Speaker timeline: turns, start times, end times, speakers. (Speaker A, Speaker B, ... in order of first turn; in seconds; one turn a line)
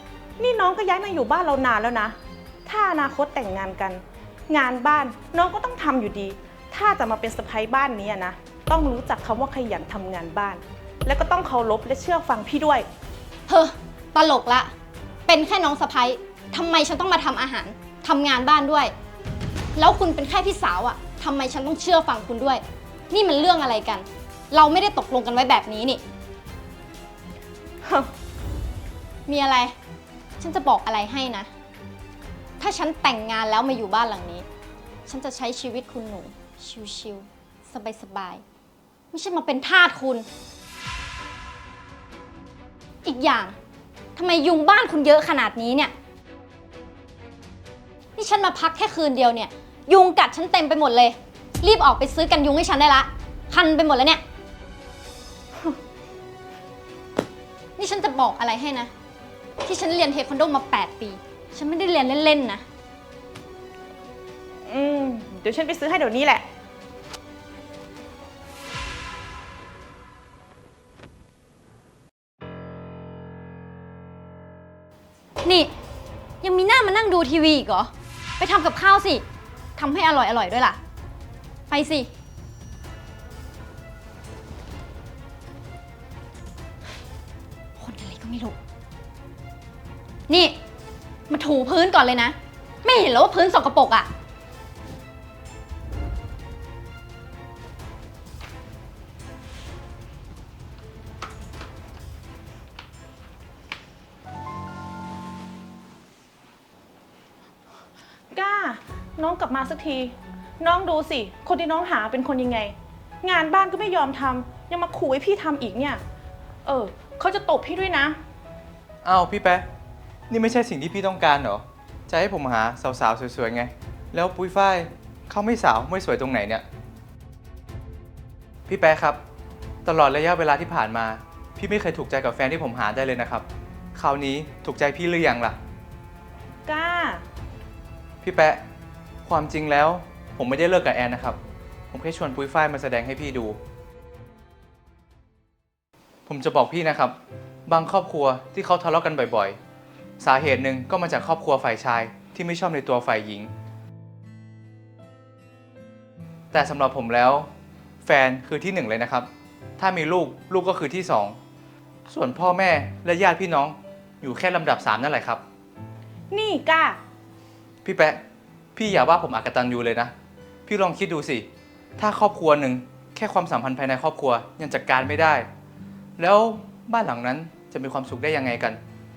Speaker A: 0.4-12.9
Speaker B: 13.5-14.7
Speaker B: 15.3-18.9
Speaker B: 19.8-26.0
Speaker A: 27.8-28.1
Speaker B: 29.3-29.7
Speaker B: 30.4-31.5
Speaker B: 32.6-34.5
Speaker B: 35.1-38.4
Speaker B: 39.1-40.3
Speaker B: 43.0-43.5
Speaker B: 44.1-45.9
Speaker B: 48.1-54.2
Speaker B: 57.8-58.9
Speaker B: 59.6-62.6
Speaker A: 64.7-66.4
Speaker B: 75.4-75.7
Speaker B: 76.4-79.2
Speaker B: 79.8-80.8
Speaker B: 81.7-82.1
Speaker B: 87.8-88.6
Speaker B: 90.3-90.6
Speaker B: 91.3-94.1
Speaker A: 108.3-116.0
Speaker A: 116.6-118.2
Speaker C: 119.0-119.7
Speaker C: 120.3-126.6
Speaker C: 128.7-129.2
Speaker C: 129.8-135.6
Speaker A: 136.7-137.2
Speaker C: 138.2-138.6
Speaker C: 139.2-141.4
Speaker C: 141.9-143.6
Speaker C: 146.3-147.2
Speaker C: 147.7-149.6
Speaker C: 150.2-153.5
Speaker C: 156.5-157.5
Speaker C: 158.0-161.4
Speaker C: 162.1-165.4
Speaker A: 166.3-167.0
Speaker C: 167.8-168.2
Speaker C: 168.8-170.1
Speaker C: 170.7-171.4
Speaker C: 172.0-175.4
Speaker C: 176.2-178.8